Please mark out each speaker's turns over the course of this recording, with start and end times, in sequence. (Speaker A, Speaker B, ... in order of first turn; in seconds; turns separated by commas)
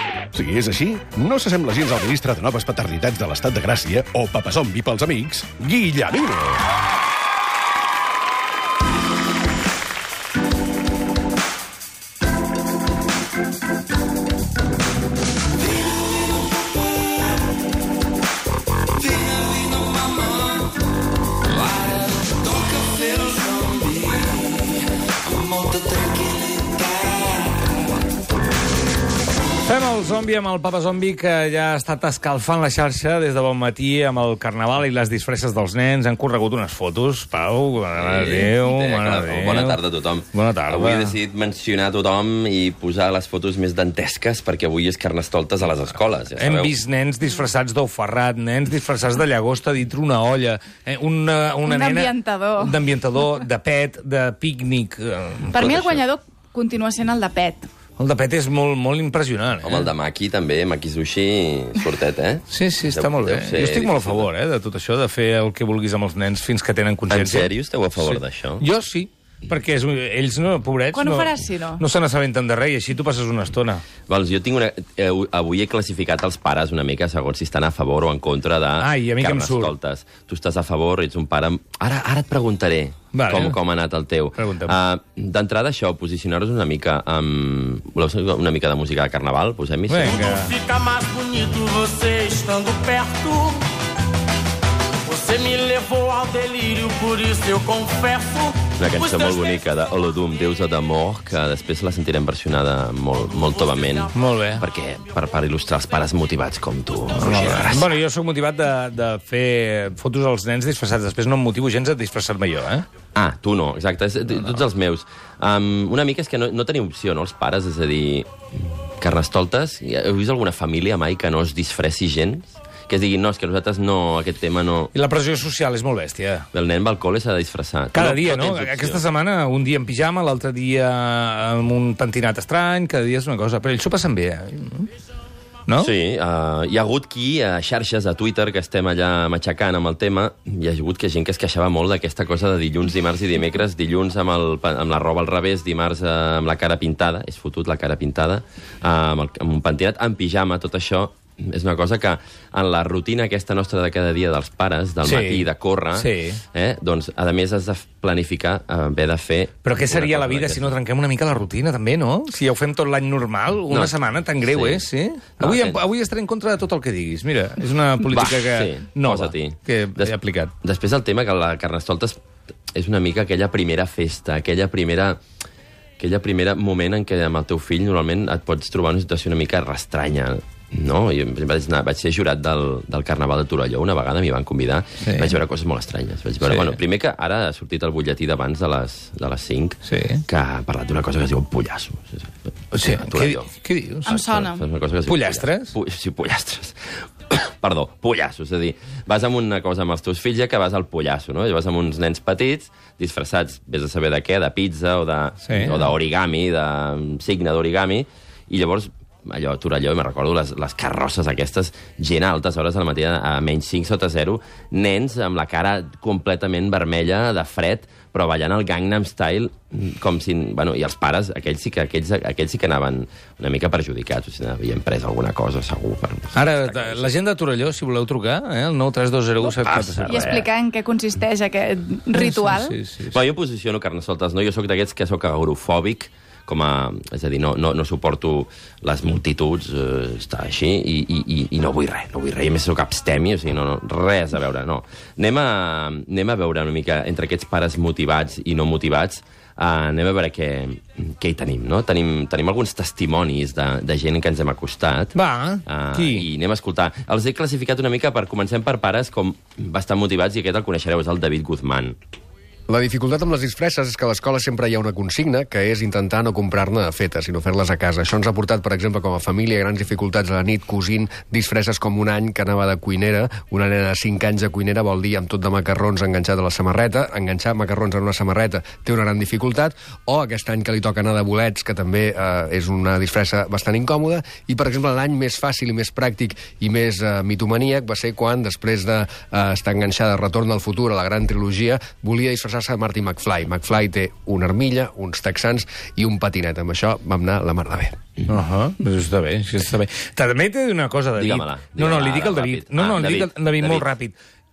Speaker A: 0.3-6.6, Speaker B: 29.6-39.8, Speaker C: 38.0-46.7, Speaker B: 40.3-41.1, Speaker B: 46.4-55.6, Speaker D: 51.6-52.8, Speaker D: 55.5-57.7, Speaker C: 55.5-56.0, Speaker B: 58.0-59.9, Speaker C: 59.6-64.3, Speaker B: 62.5-73.8, Speaker C: 67.1-68.6, Speaker D: 70.9-71.8, Speaker C: 74.1-90.2, Speaker B: 78.8-79.7, Speaker B: 83.1-83.6, Speaker B: 84.3-84.8, Speaker B: 89.9-90.5, Speaker E: 90.1-93.7, Speaker E: 95.1-99.5, Speaker C: 98.8-107.9, Speaker B: 104.1-104.6, Speaker B: 107.1-112.8, Speaker C: 113.1-118.3, Speaker C: 119.0-124.9, Speaker B: 124.9-126.5, Speaker C: 126.5-129.0, Speaker B: 127.9-134.9, Speaker C: 135.8-160.8, Speaker B: 155.0-156.4, Speaker B: 159.6-170.5, Speaker C: 163.7-164.9, Speaker C: 165.4-165.8, Speaker C: 168.1-172.2, Speaker C: 172.7-175.2, Speaker C: 176.0-193.5, Speaker B: 185.0-185.4, Speaker B: 186.4-186.8, Speaker B: 189.9-190.2, Speaker B: 192.7-194.1, Speaker D: 194.1-194.6, Speaker C: 194.1-196.8, Speaker B: 195.1-195.7, Speaker C: 197.3-227.1, Speaker B: 205.4-205.8, Speaker B: 226.3-230.5, Speaker C: 229.6-230.4, Speaker D: 230.1-232.8, Speaker B: 232.1-233.2, Speaker C: 233.1-255.1, Speaker B: 255.1-256.2, Speaker C: 255.7-261.9, Speaker F: 262.7-297.9, Speaker B: 298.3-304.1, Speaker C: 301.2-303.9